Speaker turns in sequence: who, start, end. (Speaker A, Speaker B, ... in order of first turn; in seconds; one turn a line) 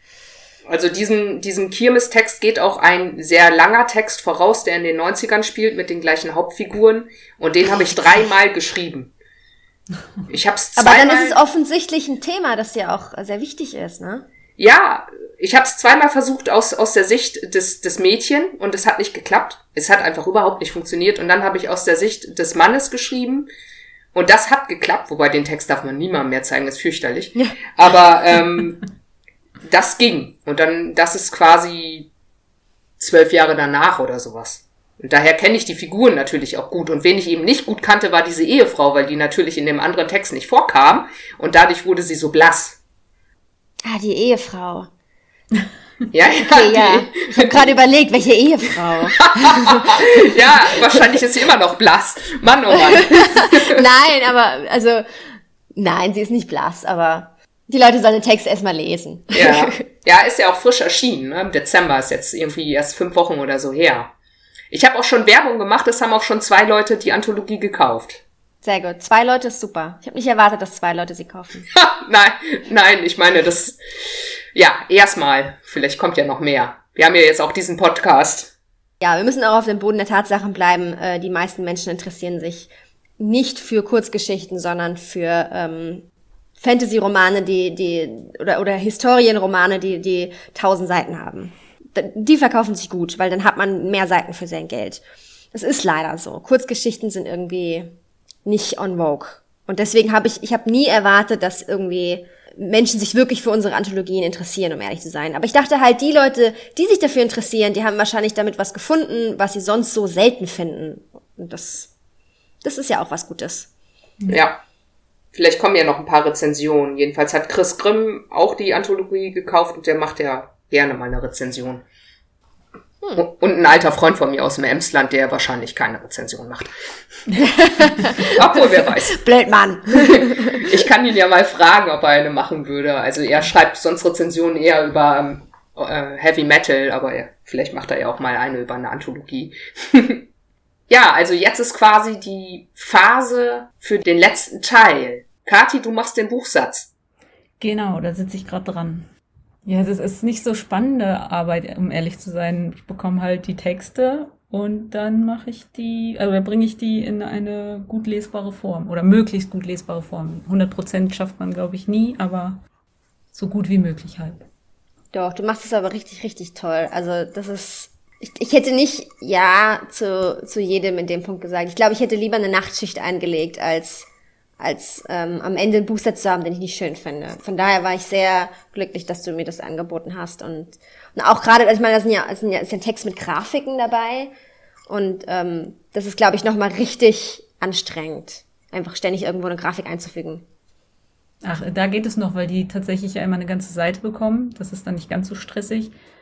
Speaker A: 0.7-9.1
Speaker A: 10.3-11.4
Speaker B: 10.8-14.2
Speaker A: 14.6-23.5
Speaker A: 24.1-28.8
Speaker A: 29.6-32.1
Speaker A: 33.0-42.8
Speaker B: 43.9-44.9
Speaker A: 46.1-47.7
Speaker B: 46.4-50.8
Speaker A: 49.2-53.8
Speaker B: 52.7-55.2
Speaker B: 55.7-59.7
Speaker A: 59.3-64.1
Speaker A: 64.7-68.2
Speaker B: 68.6-71.7
Speaker A: 71.7-78.5
Speaker B: 79.0-86.0
Speaker B: 86.6-97.9
Speaker B: 98.4-111.9
Speaker B: 112.6-113.7
Speaker A: 114.3-114.6
Speaker A: 115.3-121.8
Speaker A: 123.1-126.7
Speaker B: 127.4-130.7
Speaker A: 128.2-129.2
Speaker A: 129.9-140.2
Speaker A: 140.9-146.9
Speaker C: 147.6-149.1
Speaker C: 149.7-162.6
Speaker C: 163.3-164.4
Speaker B: 165.1-174.1
Speaker B: 174.6-184.3
Speaker B: 184.9-190.4
Speaker C: 191.4-195.9